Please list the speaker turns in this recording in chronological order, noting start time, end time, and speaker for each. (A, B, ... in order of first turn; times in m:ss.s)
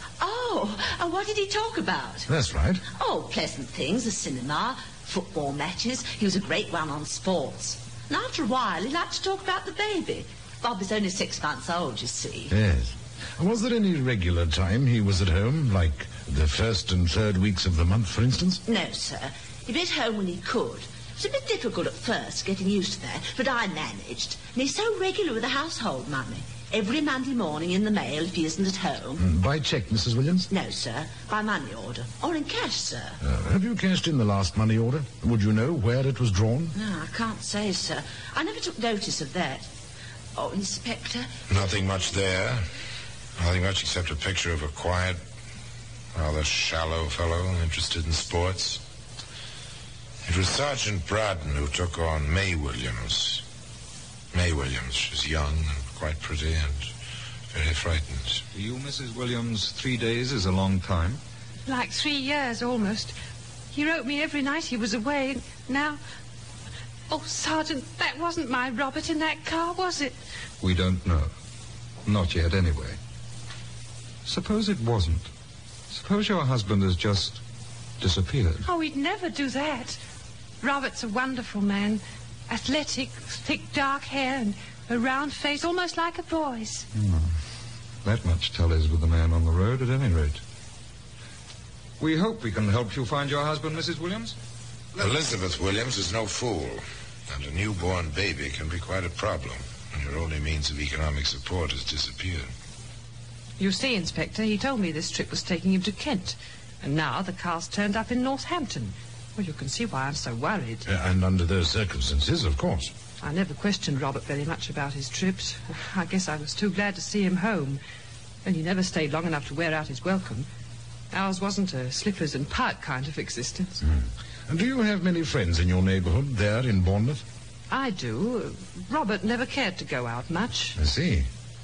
0:00.2-0:02.3 A
0:02.3-0:02.8 B
0:02.9-0:12.5 A
0:12.5-0:18.6 B
0:18.6-0:29.2 A
0:29.2-0:30.5 B
0:30.5-0:33.2 A
0:33.2-0:36.7 B
0:36.7-0:39.7 A
0:40.4-0:41.3 A
0:41.5-0:42.6 C
0:43.4-0:45.2 C
0:46.1-0:48.8 C
0:50.2-0:53.4 C
0:54.3-0:56.9 C
0:57.5-0:58.4 C
0:58.5-1:01.2 D
1:01.6-1:03.1 E
1:03.7-1:06.0 E
1:07.1-1:10.2 E
1:10.6-1:11.3 D
1:12.0-1:13.0 D
1:14.2-1:15.3 D
1:15.9-1:17.4 D
1:18.0-1:18.6 D
1:18.6-1:20.0 E
1:20.6-1:26.9 E
1:26.9-1:27.4 D
1:28.0-1:30.4 D
1:32.0-1:34.4 D
1:35.0-1:42.5 C
1:43.6-1:50.9 E
1:50.8-1:52.9 B
1:53.2-1:57.8 E
1:58.4-2:00.5 E
2:01.1-2:03.8 E
2:03.8-2:07.2 B
2:07.7-2:10.8 E
2:10.8-2:11.3 B